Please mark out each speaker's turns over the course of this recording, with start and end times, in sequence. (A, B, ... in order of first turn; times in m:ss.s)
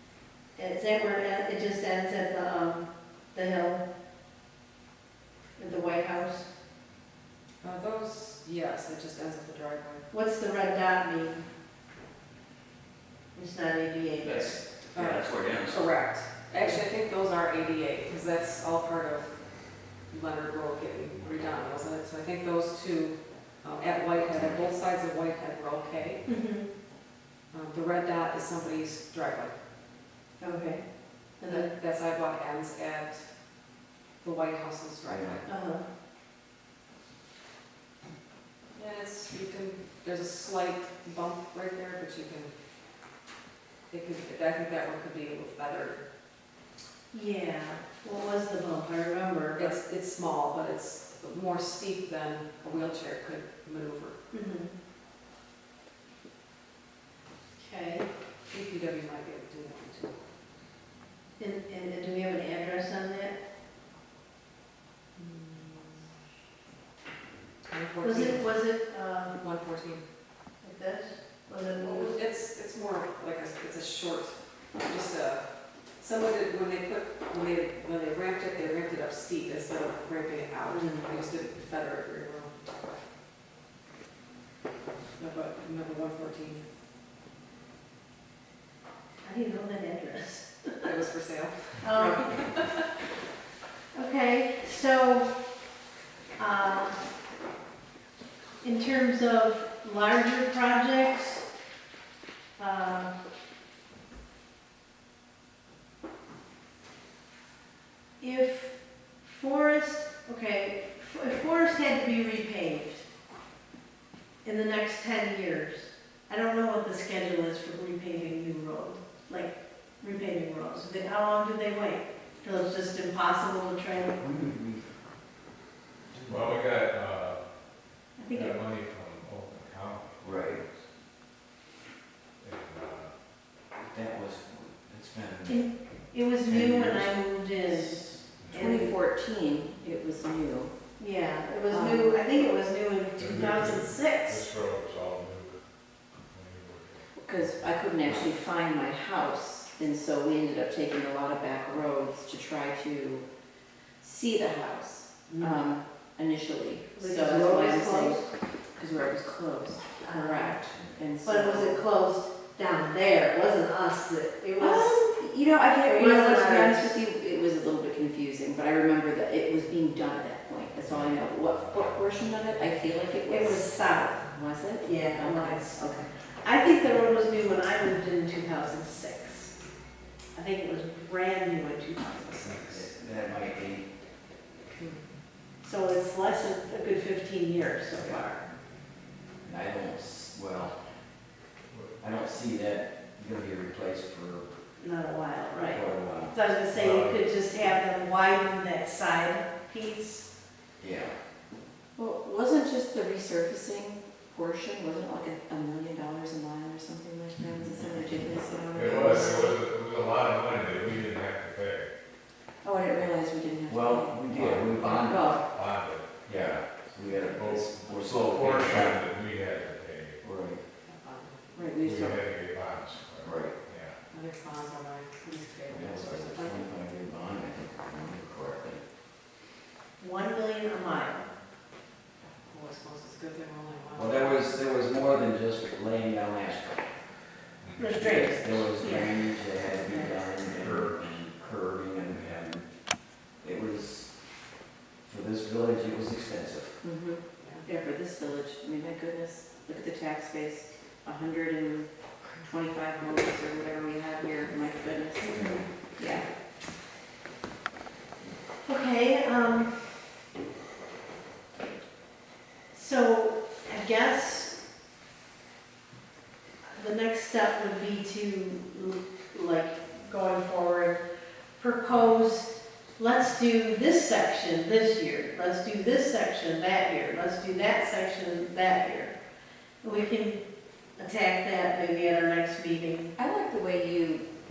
0:00.6-0:03.8 A
0:05.6-0:06.5 A
0:07.6-0:10.1 B
0:10.1-0:11.4 A
0:13.3-0:14.6 A
0:14.2-0:15.9 C
0:14.9-0:19.4 B
0:20.1-0:26.2 B
0:26.3-0:26.7 A
0:27.5-0:29.6 B
0:30.4-0:31.7 A
0:31.5-0:33.3 B
0:34.2-0:35.5 B
0:35.1-0:35.4 C
0:35.5-0:35.8 A
0:38.7-0:42.5 B
0:43.9-0:46.0 B
0:47.1-0:49.8 A
0:49.6-0:54.2 B
0:54.3-0:54.7 A
0:57.6-0:58.1 A
0:58.5-1:00.2 B
1:01.4-1:03.4 A
1:05.2-1:06.1 B
1:07.7-1:08.6 B
1:08.0-1:09.4 A
1:09.3-1:10.0 B
1:10.6-1:12.2 A
1:11.8-1:22.5 B
1:20.7-1:21.1 A
1:25.2-1:26.6 B
1:29.2-1:30.8 A
1:30.8-1:32.8 B
1:31.8-1:32.4 A
1:33.9-1:35.5 A
1:36.4-1:37.0 A
1:38.6-1:41.4 A
1:42.6-1:43.1 A
1:48.2-1:53.0 A
1:54.4-2:04.2 A
2:04.2-2:04.9 C
2:06.1-2:06.5 C
2:06.3-2:07.4 D
2:08.2-2:08.5 A
2:08.2-2:10.8 D
2:10.2-2:10.6 C
2:12.4-2:13.1 D
2:13.8-2:15.7 C
2:15.5-2:18.9 A
2:16.4-2:17.2 C
2:18.4-2:18.7 D
2:18.5-2:20.7 E
2:21.0-2:24.4 A
2:21.7-2:22.2 E
2:23.2-2:25.6 D
2:26.2-2:27.1 D
2:27.2-2:33.3 E
2:34.0-2:38.2 E
2:35.3-2:35.6 A
2:37.0-2:38.3 A
2:38.8-2:41.8 E
2:40.0-2:40.6 A
2:41.2-2:45.0 A
2:44.6-2:56.1 E
2:45.9-2:47.0 A
2:53.3-2:54.3 A
2:54.8-2:59.6 A
3:00.4-3:02.9 A
3:02.4-3:03.9 C
3:05.6-3:08.4 A
3:09.4-3:10.8 C
3:11.7-3:12.0 D
3:12.0-3:14.5 C
3:14.8-3:20.3 A
3:15.7-3:16.4 C
3:16.7-3:17.2 D
3:20.8-3:21.2 C
3:22.0-3:29.6 E
3:28.7-3:31.9 D
3:32.6-3:35.4 E
3:33.7-3:35.4 C
3:34.8-3:36.5 D
3:36.3-3:39.0 C
3:37.1-3:40.2 D
3:40.2-3:40.6 C
3:40.8-3:41.8 B
3:41.5-3:42.2 E
3:41.8-3:44.0 D
3:43.2-3:43.6 C
3:44.1-3:46.7 B
3:45.7-3:48.8 C
3:50.0-3:51.3 A
3:52.4-3:54.5 B
3:54.0-3:56.8 C
3:57.6-3:57.9 D
3:57.8-3:59.3 A
3:57.9-4:02.7 C
3:59.8-4:00.1 A
4:00.5-4:01.1 D
4:03.4-4:04.1 C
4:05.0-4:06.8 C
4:06.8-4:16.3 E
4:07.4-4:07.6 B
4:15.2-4:15.6 A
4:15.3-4:15.6 C
4:18.6-4:20.2 A
4:22.7-4:24.5 A
4:26.6-4:31.0 A
4:31.6-4:39.2 A
4:39.8-4:40.4 A
4:41.0-4:43.2 A
4:43.2-4:44.2 E